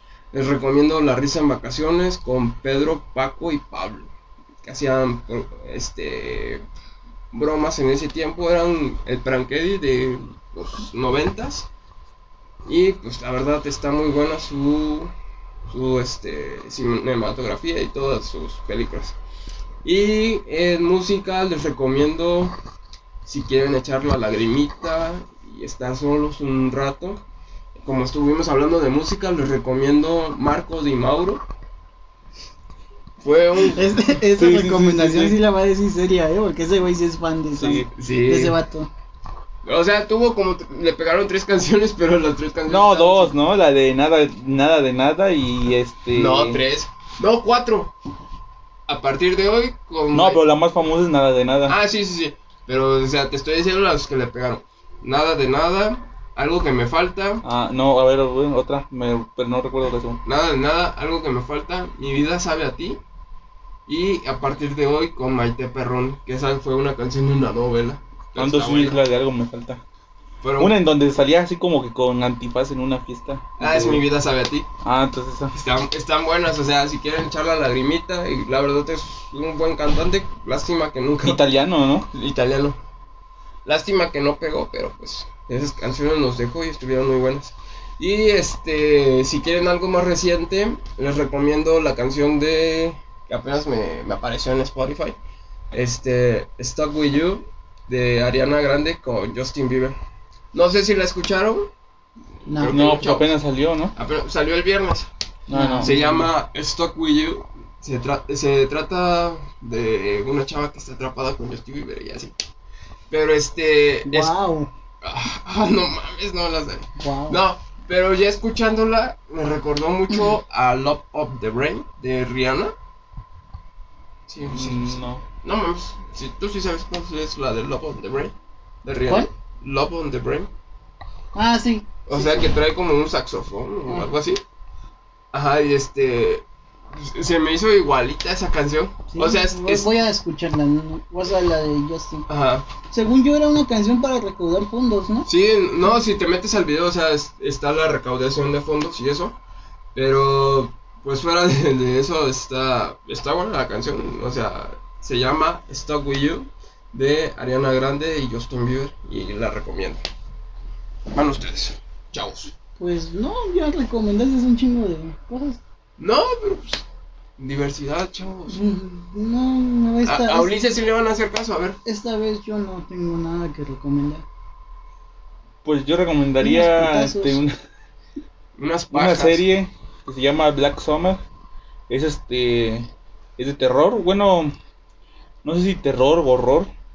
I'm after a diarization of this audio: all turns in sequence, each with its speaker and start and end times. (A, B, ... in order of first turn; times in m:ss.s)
0:00.3-0:04.1 A
0:04.6-0:06.6 A
0:07.3-0:11.7 A
0:12.7-0:15.1 A
0:15.7-0:19.2 A
0:19.8-0:22.6 A
0:23.2-0:27.2 A
0:27.8-0:31.4 A
0:33.2-0:33.8 A
0:33.7-0:38.9 B
0:34.4-0:35.4 C
0:37.6-0:37.9 C
0:38.0-0:38.6 A
0:39.6-0:43.3 A
0:42.7-0:46.6 C
0:46.1-0:47.9 A
0:48.9-0:50.4 A
0:50.1-0:51.8 C
0:51.7-0:57.4 A
0:57.4-1:00.2 C
1:00.2-1:03.0 A
1:03.9-1:09.0 A
1:08.4-1:09.8 C
1:10.4-1:10.7 A
1:10.6-1:14.0 C
1:13.6-1:14.7 A
1:14.8-1:15.6 C
1:15.5-1:21.4 A
1:21.2-1:22.1 C
1:22.1-1:22.8 A
1:23.6-1:35.2 A
1:35.7-1:40.0 A
1:40.5-1:41.7 A
1:42.5-1:42.8 B
1:42.5-1:43.3 A
1:42.7-1:43.9 C
1:44.0-1:45.1 A
1:45.5-1:46.3 C
1:45.5-1:45.9 B
1:45.8-1:52.3 A
1:53.1-1:54.3 A
1:54.1-1:54.7 B
1:55.0-2:02.7 A
1:57.0-1:57.4 B
2:04.3-2:08.3 A
2:04.4-2:05.2 C
2:08.8-2:10.5 A
2:11.3-2:12.4 B
2:12.1-2:14.4 A
2:15.3-2:19.9 A
2:19.1-2:22.3 B
2:22.3-2:22.7 A
2:22.9-2:25.3 B
2:25.3-2:29.4 A
2:30.0-2:40.0 A
2:41.1-2:42.5 A
2:42.8-2:45.6 B
2:46.0-2:46.8 A
2:47.4-2:48.6 A
2:48.5-2:50.6 B
2:50.1-2:51.8 A
2:51.8-2:54.2 B
2:55.6-2:57.5 C
2:56.4-2:57.4 B
2:58.6-2:59.5 A
2:58.9-3:01.2 C
3:01.9-3:04.5 C
3:05.4-3:06.7 C